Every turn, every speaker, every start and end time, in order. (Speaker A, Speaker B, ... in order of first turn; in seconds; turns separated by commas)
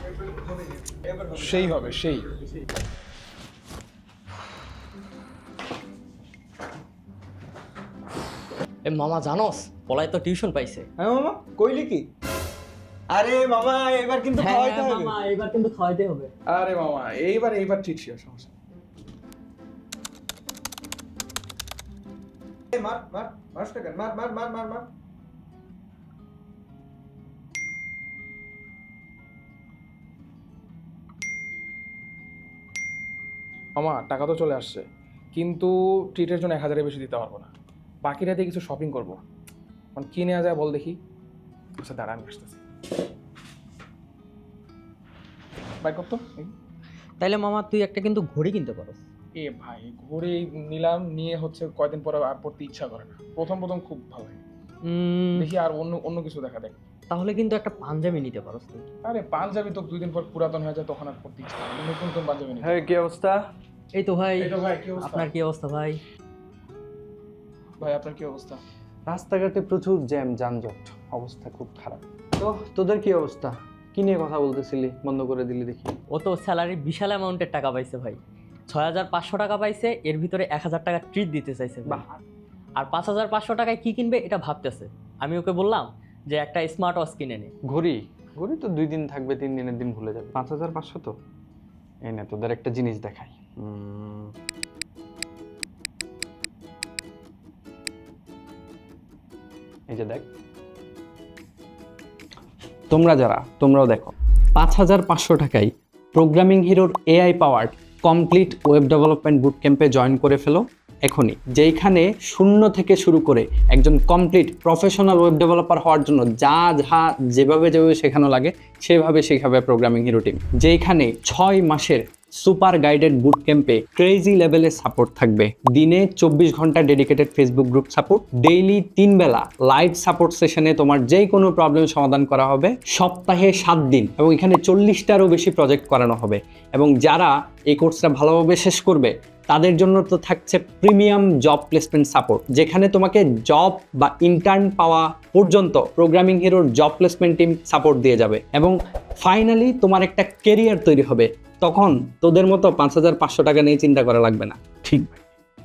Speaker A: 1.3-2.2, Speaker B: 8.8-10.9, Speaker C: 11.0-12.0, Speaker C: 13.1-15.2, Speaker B: 14.4-16.3, Speaker A: 16.5-18.5, Speaker C: 22.7-24.9, Speaker A: 33.8-37.5, Speaker A: 38.0-39.2, Speaker A: 40.0-41.0, Speaker A: 41.8-42.6, Speaker A: 45.8-46.5, Speaker B: 47.2-49.0, Speaker A: 49.4-54.4, Speaker B: 54.8-55.5, Speaker A: 55.4-56.8, Speaker B: 57.1-58.8, Speaker A: 59.0-63.0, Speaker D: 62.6-63.4, Speaker B: 63.9-66.0, Speaker A: 64.4-65.3, Speaker A: 67.8-68.6, Speaker D: 69.1-76.0, Speaker B: 76.1-78.2, Speaker B: 78.7-82.0, Speaker B: 82.8-87.5, Speaker D: 87.7-91.1, Speaker D: 92.1-94.3, Speaker D: 99.9-100.3, Speaker D: 102.9-155.1